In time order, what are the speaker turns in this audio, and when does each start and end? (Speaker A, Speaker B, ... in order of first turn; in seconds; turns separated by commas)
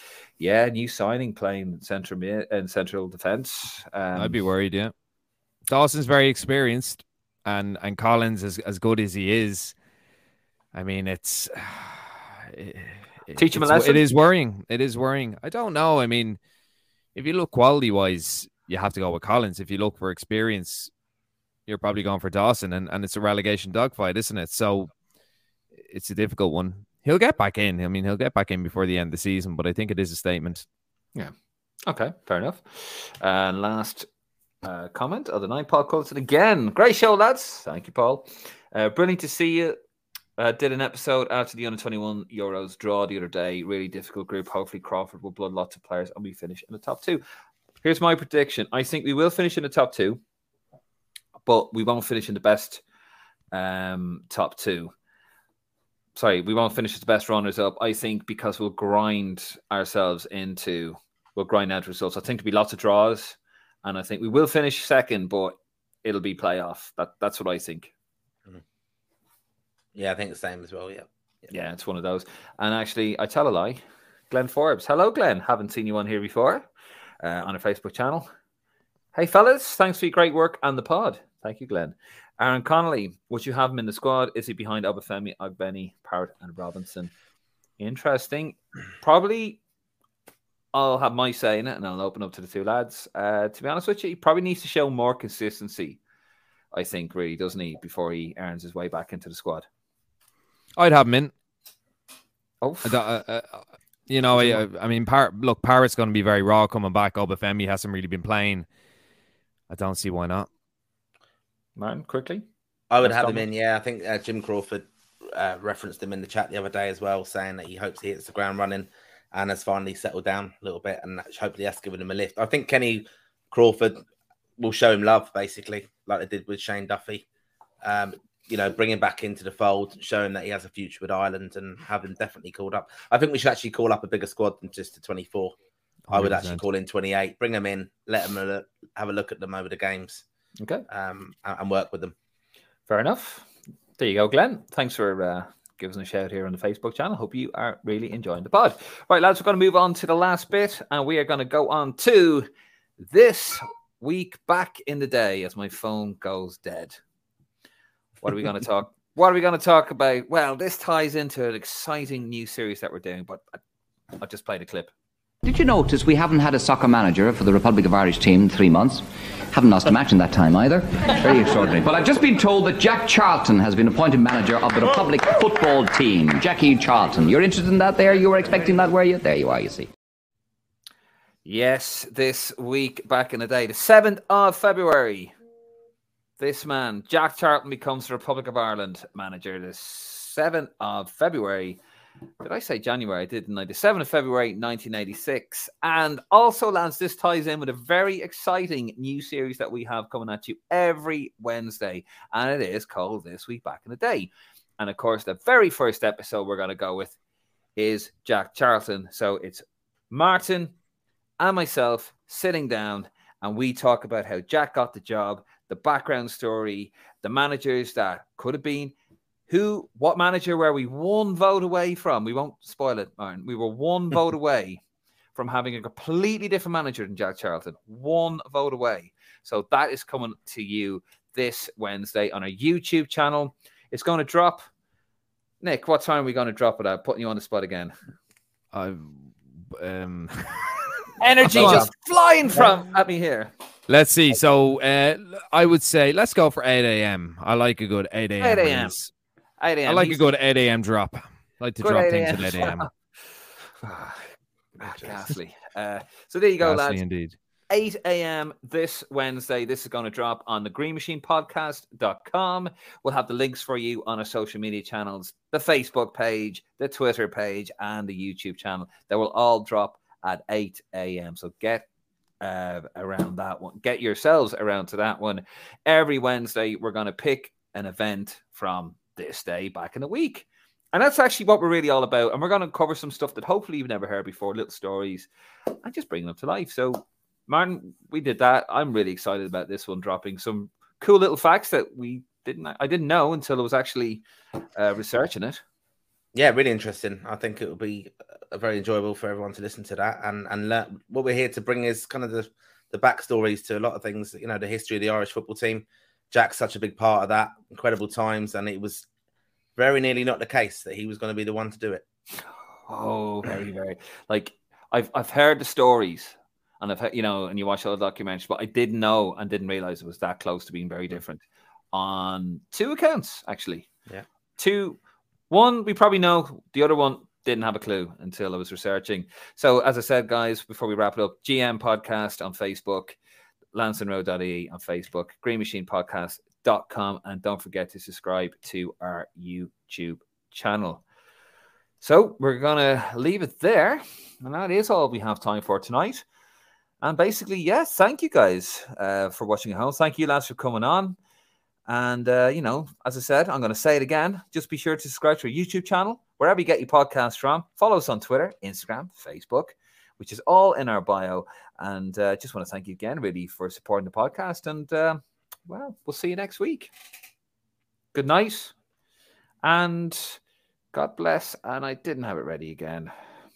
Speaker A: 0.4-4.4, Speaker B: 4.2-4.9, Speaker B: 5.7-9.7, Speaker B: 10.7-16.4, Speaker A: 13.3-14.0, Speaker B: 17.1-20.9, Speaker B: 21.7-24.9, Speaker B: 25.8-30.6, Speaker A: 31.9-34.1, Speaker A: 34.6-39.8, Speaker A: 40.4-47.2, Speaker A: 47.8-50.2, Speaker A: 51.5-52.8, Speaker A: 53.5-54.9, Speaker A: 56.1-67.9, Speaker C: 69.9-71.0, Speaker A: 71.5-76.7, Speaker A: 77.2-78.3, Speaker A: 79.1-87.1, Speaker A: 87.8-89.6, Speaker A: 90.7-96.0, Speaker A: 96.7-99.7, Speaker B: 100.8-101.3, Speaker A: 102.6-103.0, Speaker B: 102.8-108.7, Speaker A: 104.3-104.6, Speaker B: 109.7-110.5, Speaker A: 111.8-112.5, Speaker C: 112.9-124.0, Speaker A: 113.0-113.4, Speaker C: 124.6-127.2, Speaker C: 127.8-135.5, Speaker B: 136.1-136.6, Speaker C: 136.1-140.2, Speaker C: 140.9-142.1, Speaker A: 142.9-152.5, Speaker A: 153.0-157.0, Speaker A: 158.2-163.6, Speaker A: 164.2-164.9, Speaker D: 165.4-179.9, Speaker A: 181.4-185.3, Speaker A: 186.4-191.8, Speaker A: 192.4-207.2, Speaker A: 207.8-210.7, Speaker A: 211.4-218.9, Speaker A: 219.5-224.8, Speaker A: 225.3-234.6, Speaker A: 235.6-237.9, Speaker B: 238.7-240.9, Speaker A: 241.2-243.5, Speaker B: 241.5-241.9, Speaker C: 241.6-241.8, Speaker B: 243.9-249.1, Speaker A: 248.4-249.0, Speaker A: 249.6-250.2, Speaker B: 249.8-252.9, Speaker A: 251.8-252.9, Speaker A: 253.8-257.0, Speaker B: 254.9-255.3, Speaker B: 256.6-257.4, Speaker A: 257.7-271.9, Speaker A: 272.4-285.3, Speaker A: 285.8-294.2, Speaker A: 294.8-295.6, Speaker C: 296.3-309.1, Speaker C: 309.8-312.1, Speaker A: 312.4-323.9, Speaker A: 324.6-325.0, Speaker A: 325.5-333.2, Speaker A: 333.7-341.0, Speaker A: 342.0-346.2, Speaker A: 347.0-351.2, Speaker A: 351.9-366.9, Speaker A: 368.1-368.7, Speaker A: 369.6-370.4, Speaker A: 370.9-373.1